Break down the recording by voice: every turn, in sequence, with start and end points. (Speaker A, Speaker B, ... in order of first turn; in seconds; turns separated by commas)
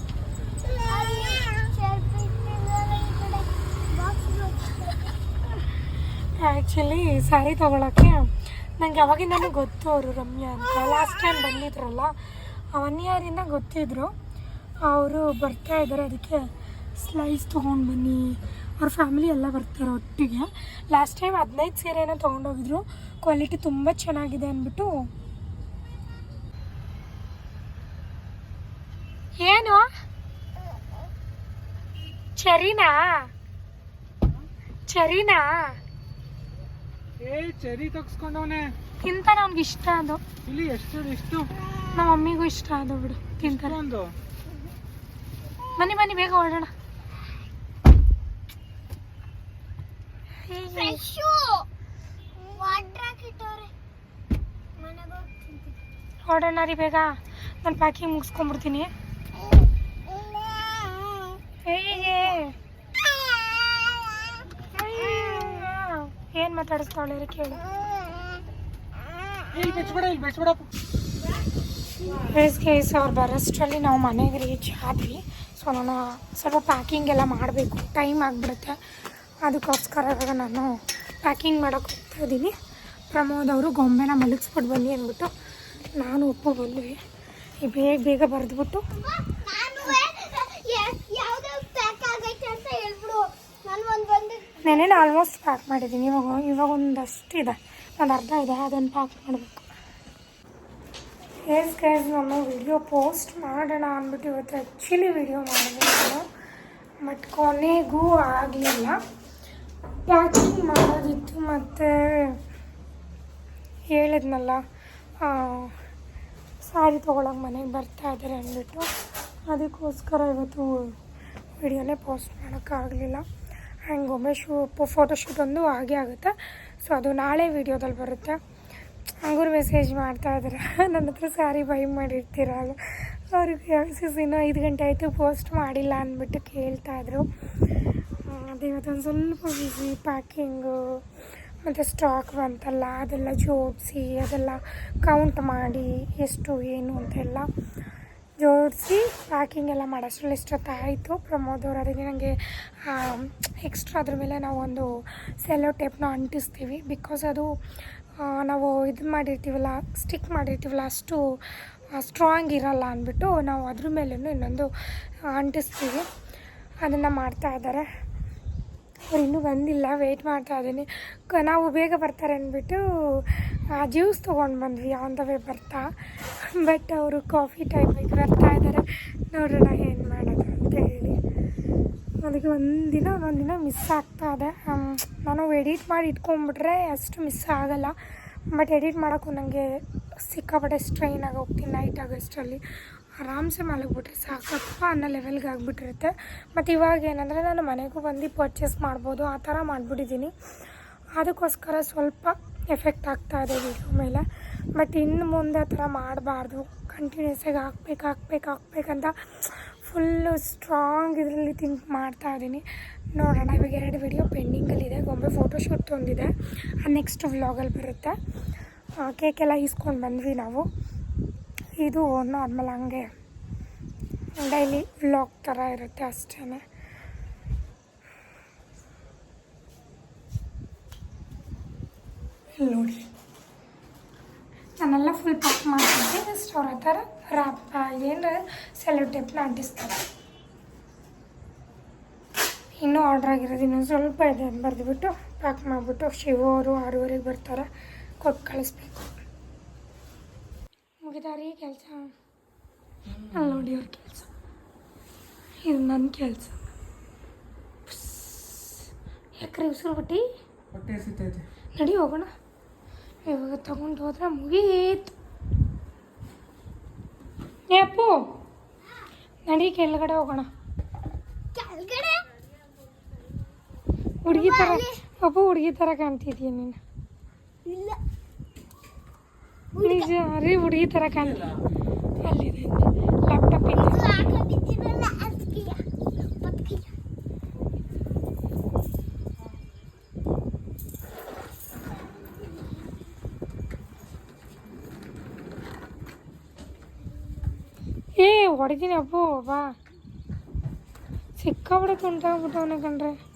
Speaker A: 0.6-5.1, Speaker B: 6.4-12.2, Speaker B: 12.7-14.1, Speaker B: 14.9-25.1, Speaker B: 29.4-29.9, Speaker B: 32.4-33.3, Speaker B: 34.9-35.8, Speaker C: 37.2-38.7, Speaker B: 39.0-40.2, Speaker C: 40.5-41.5, Speaker B: 41.9-43.8, Speaker C: 43.4-44.1, Speaker B: 45.8-46.7, Speaker B: 50.5-51.0, Speaker A: 50.8-51.7, Speaker A: 52.4-53.7, Speaker A: 54.8-55.8, Speaker B: 56.3-58.9, Speaker A: 60.1-61.4, Speaker B: 61.6-62.5, Speaker B: 64.8-67.6, Speaker C: 69.5-70.7, Speaker B: 72.1-78.8, Speaker B: 79.5-82.5, Speaker B: 83.1-85.3, Speaker B: 86.0-87.0, Speaker B: 87.6-88.8, Speaker A: 89.0-95.0, Speaker B: 94.6-99.7, Speaker B: 101.5-106.3, Speaker B: 107.0-109.0, Speaker B: 110.1-112.4, Speaker B: 113.9-114.6, Speaker B: 115.2-115.8, Speaker B: 116.6-118.9, Speaker B: 119.5-121.0, Speaker B: 121.6-123.2, Speaker B: 123.9-128.4, Speaker B: 129.2-137.3, Speaker B: 138.2-141.1, Speaker B: 141.6-147.5, Speaker B: 148.4-157.6, Speaker B: 158.2-161.4, Speaker B: 161.9-164.7, Speaker B: 165.2-166.1, Speaker B: 166.8-167.9, Speaker B: 169.1-181.2, Speaker B: 182.2-188.0, Speaker B: 188.5-192.6, Speaker B: 193.2-200.3, Speaker B: 201.2-204.2, Speaker B: 204.8-212.7, Speaker B: 213.2-218.2, Speaker B: 219.0-220.7, Speaker B: 221.8-223.1, Speaker B: 224.4-226.6, Speaker B: 232.6-233.1, Speaker B: 234.8-240.0, Speaker B: 242.8-247.7, Speaker B: 248.2-249.1, Speaker B: 251.0-252.1, Speaker C: 253.1-253.7, Speaker B: 253.3-254.3, Speaker B: 255.7-256.6, Speaker B: 257.9-260.2, Speaker C: 260.7-261.5, Speaker B: 261.8-262.3, Speaker B: 263.3-265.1, Speaker B: 267.7-268.2, Speaker B: 269.5-270.5, Speaker A: 271.6-272.3, Speaker B: 274.2-276.8, Speaker A: 274.3-275.0, Speaker A: 277.6-278.0, Speaker A: 279.7-280.1, Speaker B: 279.8-281.4, Speaker C: 281.2-281.6, Speaker B: 282.2-284.2, Speaker A: 283.7-285.8, Speaker A: 286.4-286.9, Speaker B: 298.2-299.7, Speaker B: 301.4-303.2